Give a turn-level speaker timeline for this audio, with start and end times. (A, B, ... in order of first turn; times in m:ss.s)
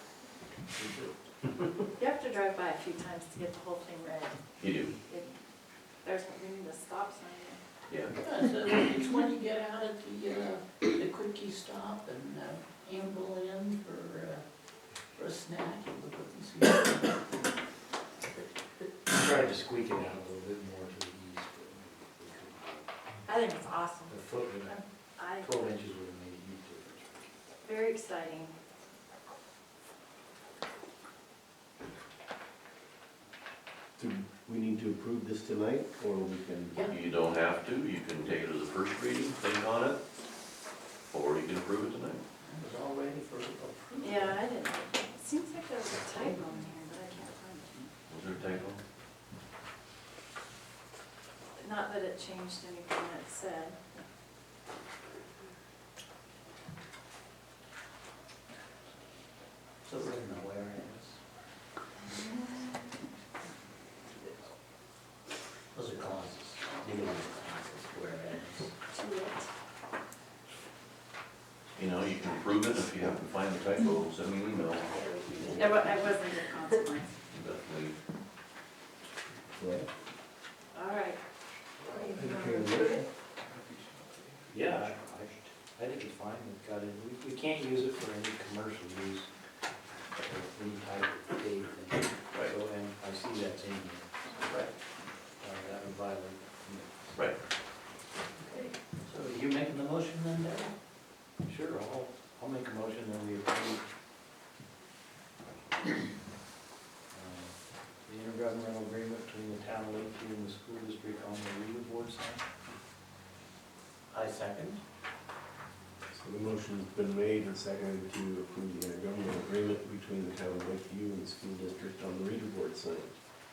0:00.7-0:01.1 A
0:02.0-0:05.3 B
0:04.6-0:04.9 C
0:06.0-0:07.6 B
0:07.9-0:08.1 C
0:08.2-0:14.4 D
0:15.2-0:17.1 D
0:19.0-0:22.8 E
0:23.2-0:25.7 B
0:24.1-0:27.3 E
0:27.6-0:28.5 B
0:34.0-0:36.7 A
0:36.9-0:40.0 C
0:41.1-0:42.2 C
0:42.4-0:44.4 D
0:44.0-0:47.9 B
0:48.1-0:48.8 C
0:51.6-0:54.1 B
0:59.8-1:01.2 D
1:02.0-1:02.7 B
1:05.7-1:08.7 D
1:08.9-1:09.5 B
1:11.8-1:15.8 C
1:15.5-1:17.1 B
1:17.3-1:17.9 C
1:19.3-1:19.9 A
1:20.7-1:21.2 B
1:21.8-1:23.0 B
1:21.9-1:23.0 A
1:24.5-1:29.3 E
1:30.2-1:34.1 E
1:34.4-1:34.7 D
1:35.4-1:37.1 E
1:38.4-1:40.8 D
1:41.4-1:43.8 E
1:47.1-1:52.4 E
1:54.1-1:54.8 D
1:56.1-2:03.1 A